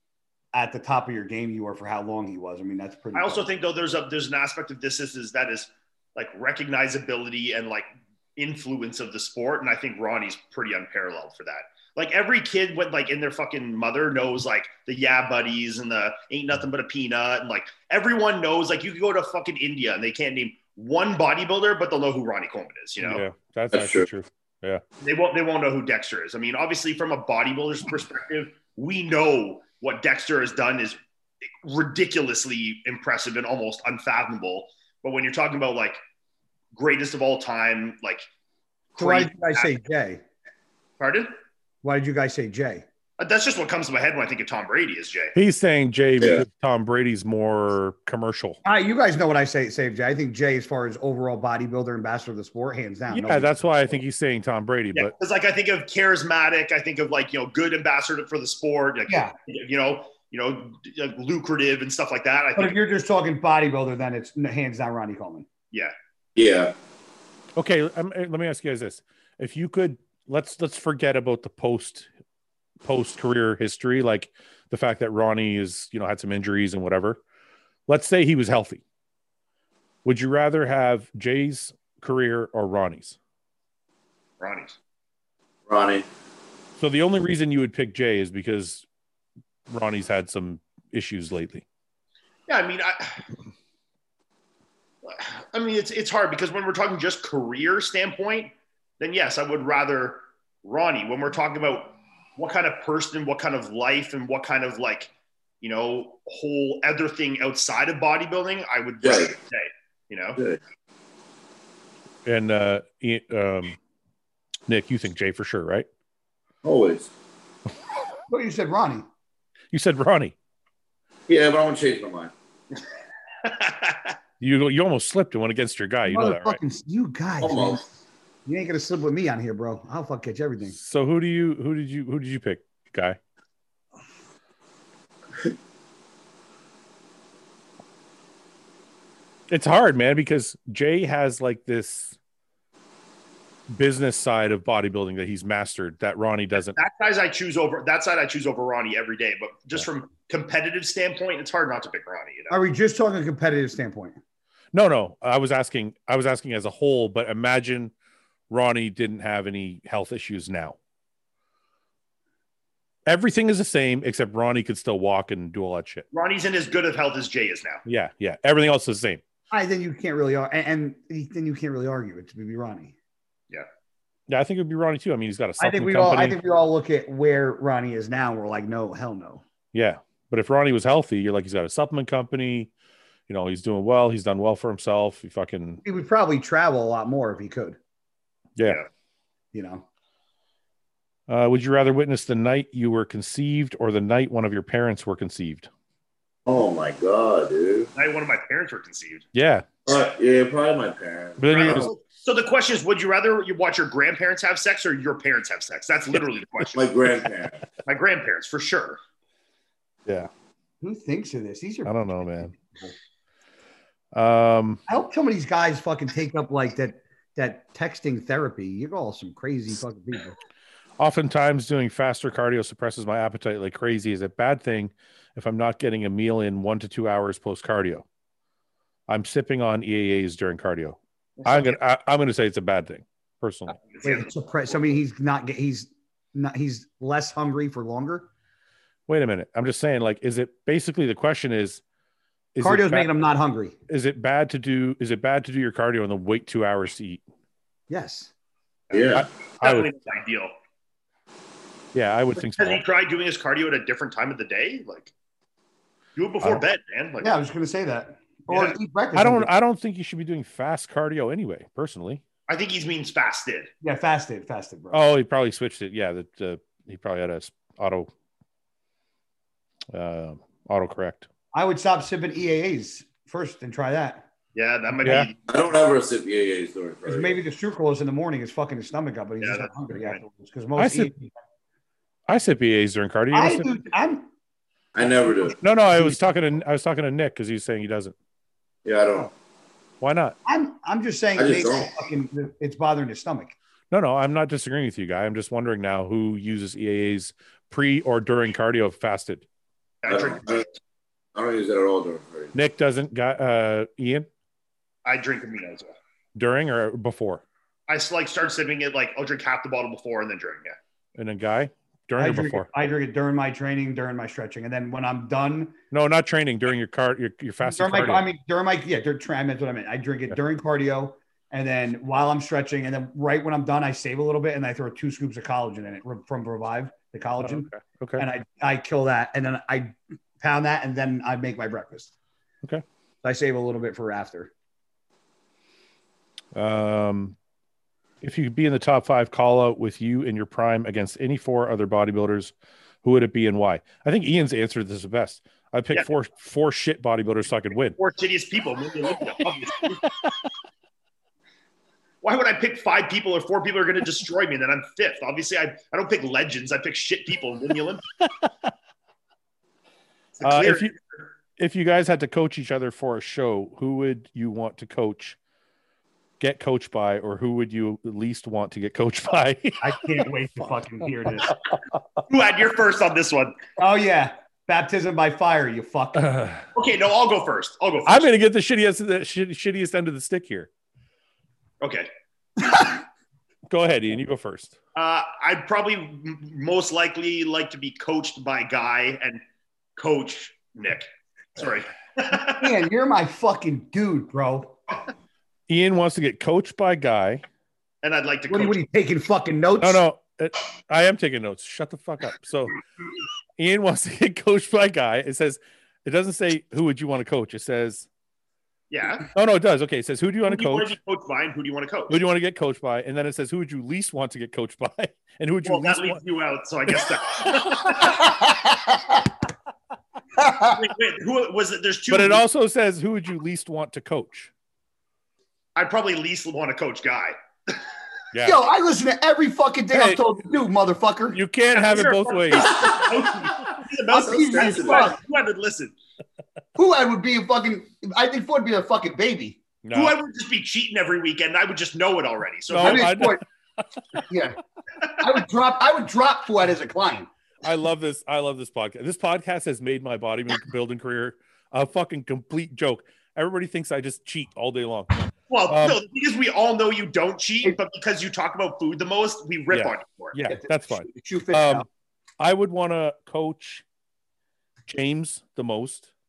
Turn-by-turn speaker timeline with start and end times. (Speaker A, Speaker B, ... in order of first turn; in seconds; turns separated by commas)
Speaker A: 0.5-3.5, Speaker B: 3.1-23.2, Speaker C: 23.0-24.8, Speaker D: 23.7-24.1, Speaker B: 25.0-31.0, Speaker B: 31.6-36.0, Speaker B: 36.7-38.2, Speaker B: 38.9-39.7, Speaker A: 39.0-40.2, Speaker B: 41.0-41.3, Speaker A: 41.8-42.8, Speaker B: 43.2-45.3, Speaker C: 45.3-48.6, Speaker A: 48.6-54.0, Speaker C: 53.1-55.1, Speaker B: 54.9-62.8, Speaker A: 59.1-59.3, Speaker A: 62.5-65.5, Speaker D: 66.3-66.7, Speaker C: 67.5-72.1, Speaker C: 72.8-77.2, Speaker C: 77.9-78.8, Speaker C: 80.0-83.2, Speaker B: 84.4-84.8, Speaker D: 85.7-86.0, Speaker C: 86.8-88.8, Speaker C: 89.7-91.6, Speaker B: 92.5-93.2, Speaker B: 95.0-110.4, Speaker D: 109.0-109.3, Speaker C: 112.2-113.8, Speaker C: 114.7-115.9, Speaker D: 116.6-117.1, Speaker A: 118.3-119.0, Speaker C: 119.7-120.3, Speaker D: 121.3-122.3, Speaker B: 123.4-124.1, Speaker C: 124.4-126.6, Speaker A: 126.0-127.8, Speaker D: 127.4-127.8, Speaker A: 128.4-130.8, Speaker C: 130.7-133.2, Speaker C: 139.5-142.1, Speaker C: 143.7-146.8, Speaker B: 146.7-152.5, Speaker A: 152.5-154.2, Speaker C: 154.7-157.9, Speaker C: 158.5-160.8, Speaker C: 163.1-166.0, Speaker B: 166.1-167.8, Speaker C: 167.8-169.2, Speaker A: 169.5-172.9, Speaker C: 174.3-176.4, Speaker A: 175.6-179.4, Speaker C: 179.7-182.7, Speaker C: 183.3-185.8, Speaker A: 185.8-187.8, Speaker A: 189.5-189.8, Speaker C: 191.3-195.7, Speaker D: 196.4-197.9, Speaker B: 197.9-199.2, Speaker C: 199.3-199.7, Speaker D: 199.8-201.8, Speaker C: 201.4-201.9, Speaker B: 201.5-206.8, Speaker D: 206.7-207.6, Speaker B: 207.8-209.0, Speaker A: 210.8-212.9, Speaker C: 211.8-212.5, Speaker C: 214.1-214.8, Speaker A: 214.9-220.3, Speaker C: 221.0-228.0, Speaker C: 229.1-233.7, Speaker B: 231.4-231.8, Speaker B: 233.8-234.3, Speaker A: 234.0-238.3, Speaker C: 239.1-241.8, Speaker C: 242.5-243.1, Speaker A: 242.6-243.8, Speaker C: 243.9-247.2, Speaker A: 247.9-248.3, Speaker B: 248.9-250.5, Speaker D: 248.9-249.2, Speaker C: 249.1-249.9, Speaker C: 251.9-252.8, Speaker B: 252.4-255.1, Speaker B: 256.1-257.3, Speaker A: 257.2-259.5, Speaker B: 258.5-258.8, Speaker C: 259.1-262.2, Speaker B: 262.5-263.7, Speaker A: 263.8-265.0, Speaker C: 264.9-268.1, Speaker C: 269.9-271.3, Speaker A: 271.5-274.2, Speaker B: 274.5-275.4, Speaker C: 275.0-275.3, Speaker D: 275.5-277.3, Speaker A: 277.1-281.3, Speaker B: 279.4-280.2, Speaker C: 280.8-281.1, Speaker C: 282.3-283.7, Speaker A: 283.3-284.3, Speaker D: 284.9-285.6, Speaker C: 285.6-288.1, Speaker D: 288.8-289.3, Speaker C: 290.0-290.4, Speaker A: 290.4-293.6, Speaker D: 291.4-291.9, Speaker C: 293.9-299.4, Speaker B: 300.0-300.6, Speaker D: 300.1-300.6, Speaker D: 301.3-302.5, Speaker C: 302.5-304.3, Speaker B: 305.0-305.9, Speaker C: 306.3-307.4, Speaker B: 307.9-310.8, Speaker C: 311.1-312.7, Speaker A: 312.2-315.8, Speaker C: 315.9-318.3, Speaker A: 317.6-332.1, Speaker C: 327.4-328.2, Speaker A: 333.2-334.5, Speaker C: 336.5-337.4, Speaker C: 338.2-342.5, Speaker C: 343.0-348.0, Speaker B: 348.0-350.0, Speaker C: 350.0-350.5, Speaker B: 352.2-358.0, Speaker C: 358.2-358.5, Speaker B: 360.4-360.9, Speaker C: 360.4-360.9, Speaker C: 361.6-365.4, Speaker C: 366.4-370.7, Speaker A: 369.8-371.5, Speaker B: 372.3-373.5, Speaker A: 373.8-376.3, Speaker C: 376.2-376.6, Speaker B: 376.7-378.3, Speaker C: 378.1-380.7, Speaker B: 381.8-382.1, Speaker C: 383.7-384.8, Speaker B: 384.9-389.4, Speaker B: 390.0-392.7, Speaker A: 392.6-394.9, Speaker C: 395.7-397.4, Speaker B: 398.0-398.8, Speaker A: 398.5-400.0, Speaker C: 399.8-402.8, Speaker C: 403.6-408.1, Speaker B: 408.9-409.3, Speaker C: 409.3-410.9, Speaker B: 410.5-412.2, Speaker C: 412.1-416.2, Speaker B: 415.6-418.2, Speaker C: 417.0-418.1, Speaker A: 418.1-419.2, Speaker A: 420.3-420.8, Speaker B: 420.6-422.4, Speaker C: 422.1-424.5, Speaker B: 425.8-427.8, Speaker C: 428.3-428.6, Speaker A: 428.4-431.4, Speaker C: 429.9-430.2, Speaker C: 431.3-433.0, Speaker B: 431.7-435.9, Speaker A: 434.1-435.2, Speaker D: 434.1-435.1, Speaker A: 436.8-439.6, Speaker C: 439.8-440.1, Speaker B: 439.9-443.1, Speaker C: 442.7-444.2, Speaker A: 442.7-443.4, Speaker A: 444.3-444.6, Speaker A: 445.2-447.3, Speaker C: 447.6-455.2, Speaker B: 455.5-460.4, Speaker C: 455.7-456.0, Speaker C: 459.7-461.9, Speaker A: 460.5-461.9, Speaker C: 462.4-463.8, Speaker C: 464.9-466.1